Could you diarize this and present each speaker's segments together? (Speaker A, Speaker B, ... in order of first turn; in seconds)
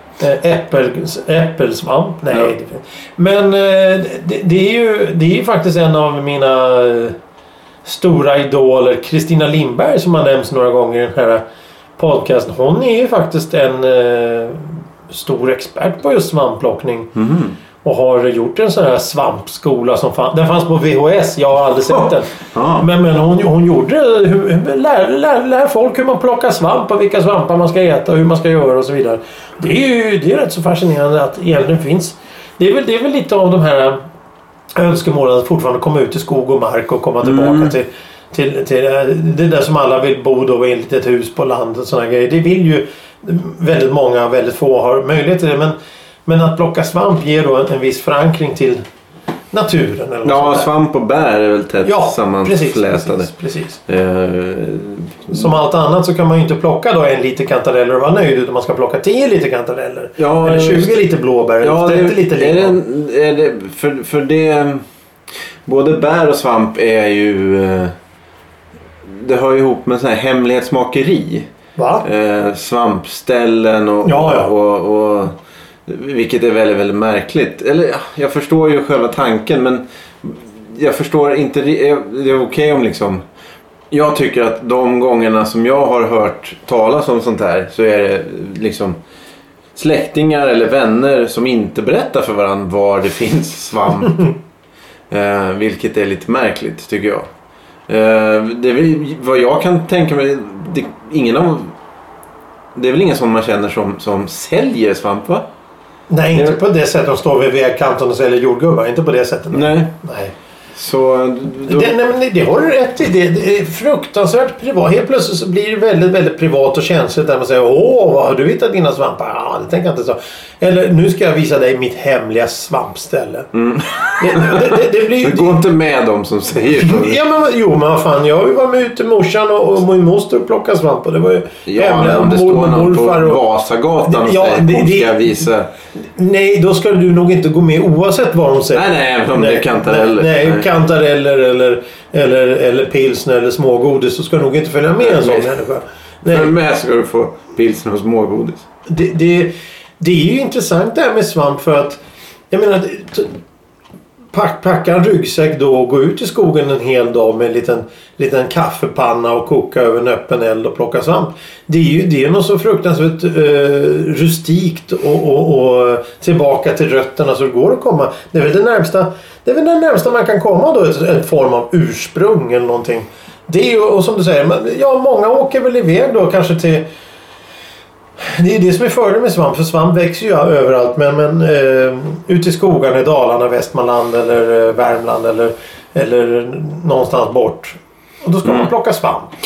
Speaker A: 0.2-7.2, 7.8-11.4, 12.0-17.1, 17.8-34.0, 34.8-48.8, 49.5-50.7, 51.8-53.8, 55.3-62.8, 71.8-72.0, 74.0-74.5, 106.1-110.3, 111.7-123.5, 124.2-125.6, 126.8-133.4, 134.0-146.5, 148.9-153.3, 154.3-176.9, 178.2-189.3
Speaker B: 17.1-17.6, 21.9-22.9, 37.2-37.7, 50.2-53.3, 53.9-55.5, 60.2-61.0, 61.6-64.8, 65.6-67.9, 69.0-71.5, 72.0-75.3, 75.9-83.2, 83.9-89.0, 89.7-94.3, 95.1-97.3, 97.9-101.7, 102.7-105.5, 109.5-109.9, 110.7-111.9, 123.5-127.2, 131.7-135.7, 138.7-140.7, 145.0-145.5, 146.3-148.6, 188.4-188.7